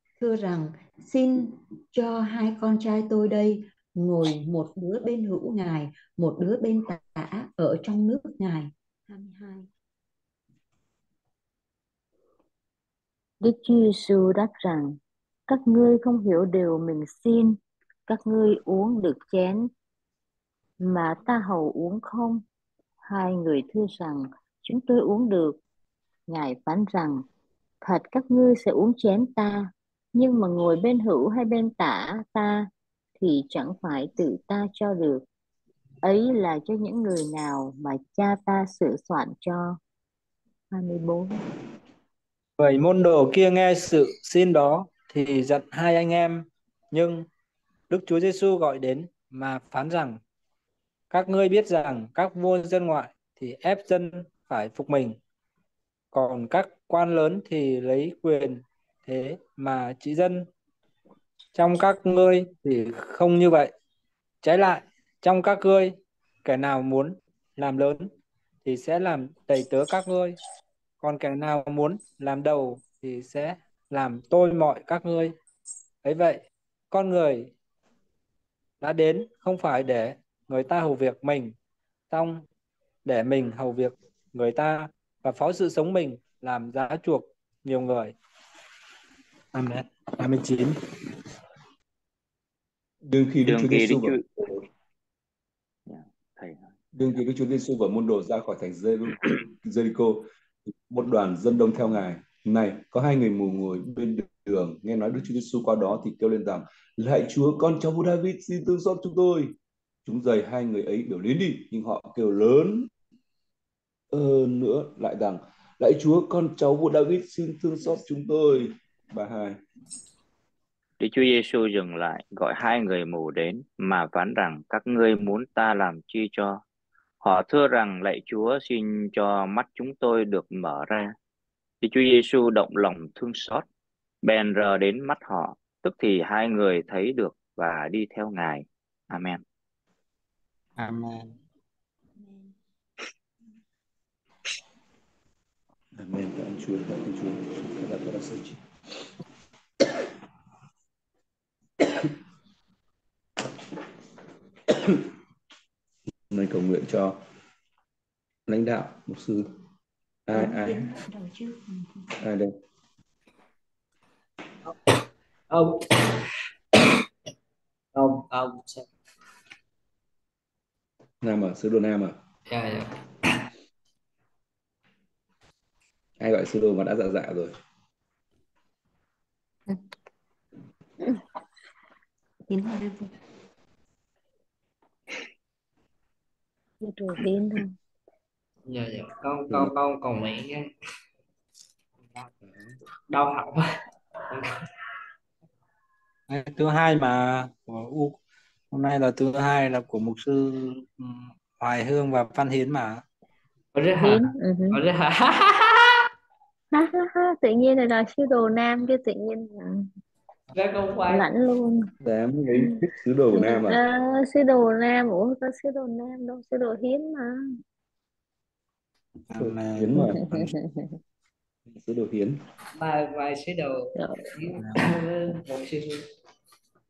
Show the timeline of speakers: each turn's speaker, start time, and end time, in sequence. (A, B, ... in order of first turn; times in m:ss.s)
0:00.2-0:09.7 A
0:13.4-0:15.0 B
0:15.5-0:19.7 B
0:20.8-0:22.4 B
0:23.0-0:25.6 B
0:26.3-0:27.2 B
0:27.8-0:35.2 B
0:36.0-0:39.8 B
0:40.7-0:41.4 B
0:42.6-0:47.3 C
0:47.9-0:50.2 C
0:51.1-0:55.2 C
0:56.1-1:00.5 C
1:01.6-1:03.7 C
1:04.4-1:08.1 C
1:08.6-1:10.4 C
1:11.0-1:15.4 C
1:16.0-1:17.5 C
1:18.8-1:21.6 C
1:22.1-1:22.4 C
1:23.0-1:28.2 C
1:29.5-1:30.9 C
1:33.0-1:34.6 D
1:33.5-1:34.2 E
1:35.9-1:36.7 E
1:37.0-1:52.9 D
1:54.1-1:59.6 D
2:01.0-2:06.6 E
2:07.2-2:11.1 E
2:11.8-2:13.6 E
2:14.2-2:19.4 E
2:20.8-2:21.4 C
2:22.2-2:22.5 A
2:26.0-2:28.6 D
2:34.7-2:35.0 D
2:36.3-2:37.2 D
2:38.5-2:39.5 D
2:40.3-2:40.9 D
2:40.3-2:42.1 A
2:42.2-2:42.5 D
2:44.6-2:44.9 F
2:45.5-2:46.8 F
2:48.0-2:48.9 F
2:51.2-2:52.2 D
2:52.5-2:53.4 F
2:56.2-2:57.6 D
3:02.5-3:03.1 A
3:06.8-3:07.7 B
3:08.7-3:10.7 F
3:13.1-3:14.7 F
3:16.3-3:18.2 C
3:18.7-3:23.0 C
3:23.7-3:26.1 F
3:24.0-3:24.8 B
3:26.8-3:29.9 B
3:30.5-3:31.3 F
3:31.1-3:31.9 B
3:32.0-3:33.8 D
3:33.4-3:37.4 B
3:39.3-3:40.0 C
3:39.4-3:40.5 D
3:41.7-3:42.4 D
3:42.8-3:46.1 F
3:44.6-3:44.9 C